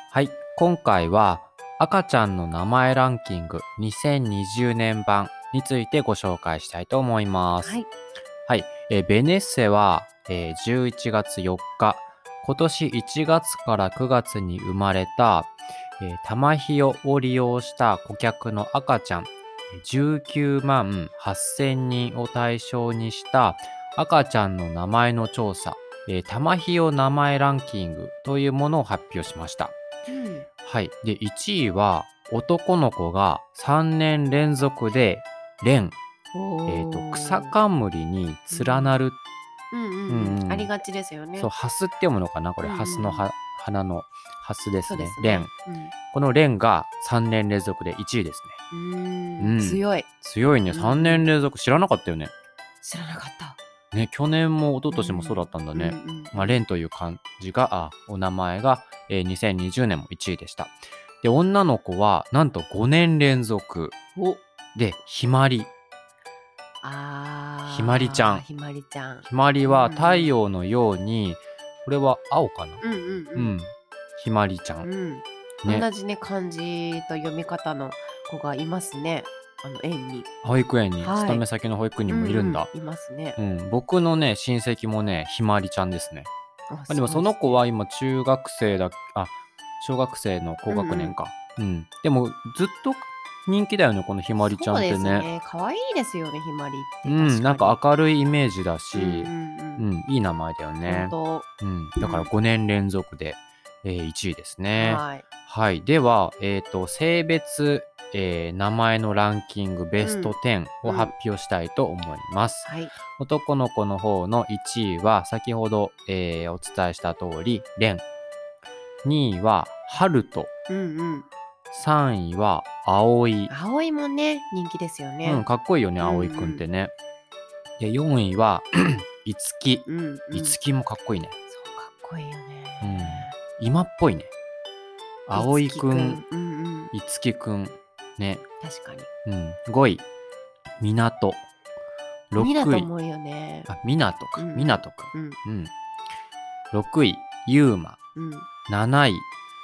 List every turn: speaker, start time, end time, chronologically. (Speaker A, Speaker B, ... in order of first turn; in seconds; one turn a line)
Speaker A: 0.1-7.8
Speaker B: 7.6-7.9
Speaker A: 8.5-29.8
Speaker B: 30.1-30.5
Speaker A: 30.6-36.0
Speaker B: 36.3-37.5
Speaker A: 36.6-39.2
Speaker B: 38.5-39.0
Speaker B: 39.7-41.5
Speaker A: 40.1-40.7
Speaker A: 41.4-45.5
Speaker B: 42.6-43.3
Speaker B: 44.9-45.9
Speaker A: 46.1-48.6
Speaker B: 48.7-50.1
Speaker A: 49.4-52.3
Speaker B: 50.7-51.3
Speaker B: 52.8-53.6
Speaker A: 53.9-63.9
Speaker B: 54.9-56.6
Speaker B: 64.1-64.4
Speaker A: 64.7-65.7
Speaker B: 66.8-70.3
Speaker A: 67.7-68.4
Speaker A: 69.2-72.8
Speaker B: 72.8-73.6
Speaker A: 73.3-74.9
Speaker B: 74.8-80.3
Speaker A: 80.4-82.7
Speaker B: 81.0-81.4
Speaker B: 82.1-83.4
Speaker A: 83.4-86.3
Speaker B: 86.7-87.6
Speaker A: 86.9-95.3
Speaker B: 90.7-91.2
Speaker B: 94.4-97.8
Speaker A: 97.0-118.0
Speaker B: 98.9-99.9
Speaker B: 100.8-101.5
Speaker B: 102.0-102.3
Speaker B: 104.7-105.2
Speaker B: 110.0-111.1
Speaker B: 112.6-112.9
Speaker A: 119.0-120.5
Speaker B: 120.7-121.3
Speaker A: 121.7-123.5
Speaker B: 123.5-125.5
Speaker A: 125.2-126.9
Speaker B: 126.0-126.7
Speaker A: 127.8-131.3
Speaker B: 129.8-130.6
Speaker B: 131.5-133.3
Speaker A: 132.8-134.3
Speaker A: 135.2-136.2
Speaker B: 135.3-136.9
Speaker A: 136.9-138.4
Speaker B: 138.6-139.1
Speaker A: 139.2-140.1
Speaker A: 140.8-141.4
Speaker A: 142.3-142.9
Speaker B: 142.3-143.7
Speaker A: 143.7-145.7
Speaker B: 144.4-145.4
Speaker A: 146.7-148.0
Speaker B: 148.1-148.5
Speaker A: 148.7-149.3